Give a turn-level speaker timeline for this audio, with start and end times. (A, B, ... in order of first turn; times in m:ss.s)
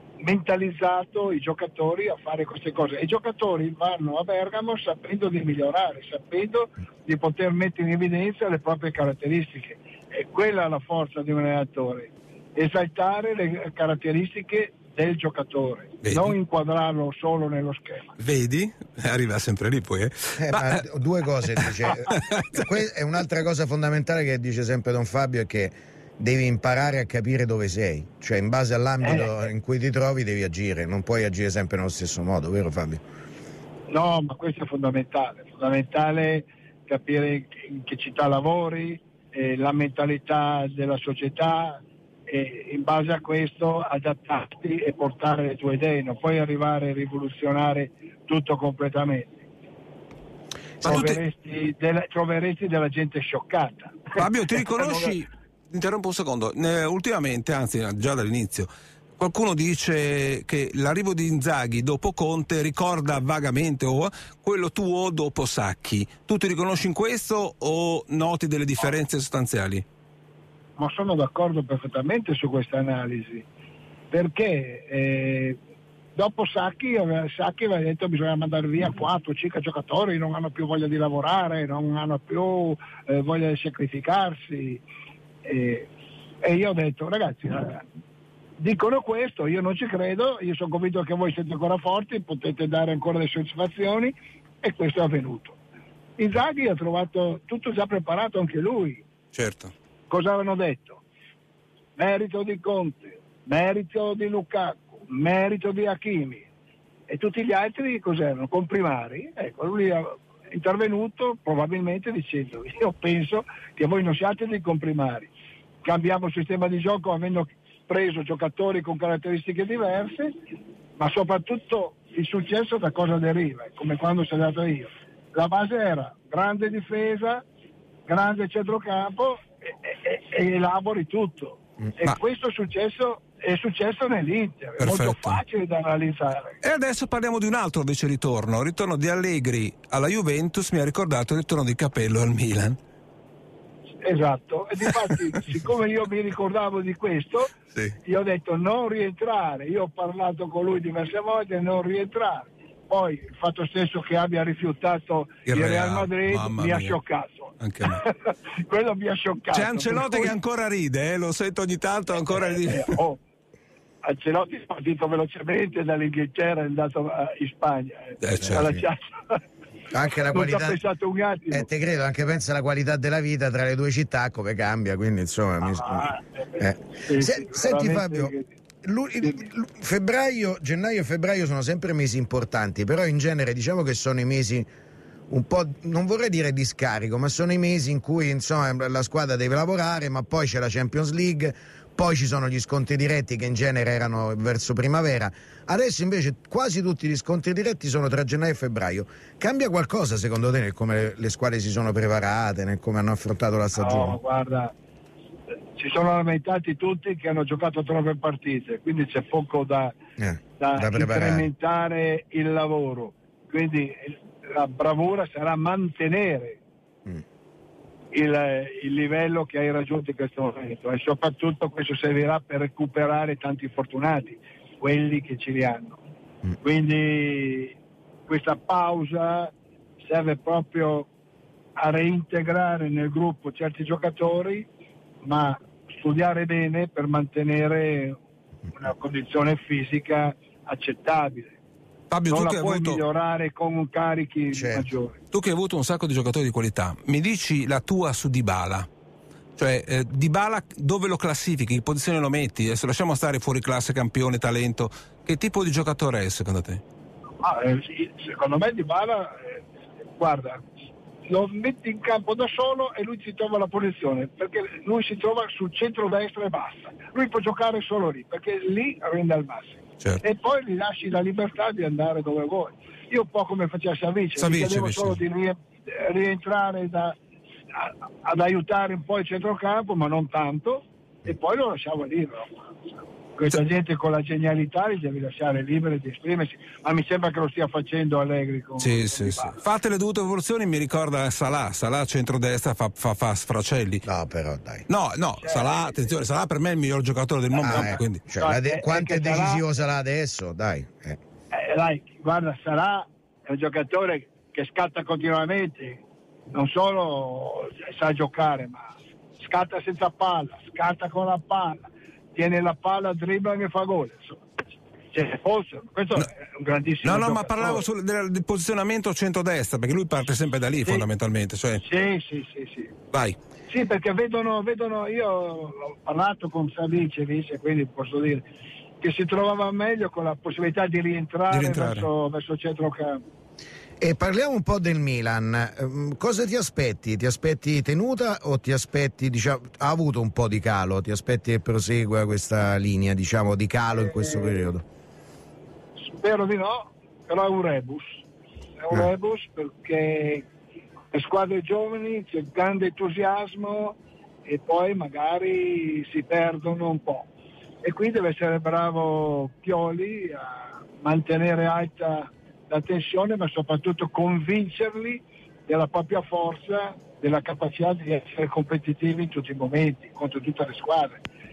0:00.2-0:18.2 A
0:16.0-0:16.4 B
0:18.2-0:20.8 B
0:20.4-0:33.0 C
0:21.5-0:22.6 B
0:29.0-0:29.3 A
0:33.9-0:49.4 A
0:50.8-0:51.2 B
0:50.8-0:54.2 A
0:54.1-1:09.8 B
0:54.7-0:55.1 A
1:10.8-1:13.4 A
1:14.1-1:15.6 A
1:16.1-1:24.8 A
1:25.4-1:25.9 A
1:26.4-1:27.9 A
1:28.6-1:35.6 A
1:36.2-1:39.0 A
1:39.3-1:39.7 B
1:40.1-1:41.0 A
1:42.0-1:46.4 A
1:47.1-1:55.3 A
1:55.8-2:00.3 A
2:01.0-2:07.4 A
2:08.1-2:16.6 A
2:14.8-2:15.4 B
2:16.6-2:22.8 B
2:24.0-2:27.5 A
2:28.0-2:40.4 A
2:35.5-2:37.0 B
2:37.6-2:38.0 B
2:39.5-2:43.0 B
2:42.3-2:43.2 A
2:44.0-2:49.4 A
2:48.2-2:48.7 B
2:48.4-2:48.8 C
2:49.9-2:50.8 C
2:50.3-2:51.7 A
2:51.5-3:04.7 C
2:55.6-2:58.6 A
2:59.2-2:59.5 A
3:05.3-3:24.2 C
3:23.8-3:24.7 A
3:25.8-3:30.0 A
3:30.2-3:31.5 C
3:30.6-3:36.6 A
3:38.1-3:46.0 A
3:46.6-3:47.8 A
3:48.3-3:51.1 A
3:51.8-3:54.7 A
3:55.2-3:58.2 A
3:58.7-4:01.6 A
4:02.1-4:03.0 B
4:02.3-4:05.2 A
4:04.5-4:04.9 C
4:05.3-4:08.9 B
4:09.6-4:16.8 B
4:17.4-4:19.6 A
4:20.2-4:20.6 A
4:21.2-4:37.2 A
4:34.4-4:35.2 B
4:37.8-4:42.7 A
4:43.4-4:49.6 A
4:48.8-4:54.0 B
4:54.1-4:54.8 C
4:54.9-4:58.2 B
4:55.4-4:56.2 A
4:57.5-4:59.6 A
4:57.6-5:01.2 C
5:01.5-5:14.4 A
5:15.1-5:17.8 A
5:17.0-5:21.8 B
5:21.8-5:22.9 A
5:23.1-5:23.4 B
5:23.7-5:28.4 A
5:29.0-5:33.2 A
5:31.5-5:32.1 B
5:34.0-5:44.8 C
5:43.9-5:44.7 A
5:46.0-5:48.2 A
5:48.8-5:50.4 A
5:51.1-5:57.3 A
5:57.8-6:11.2 A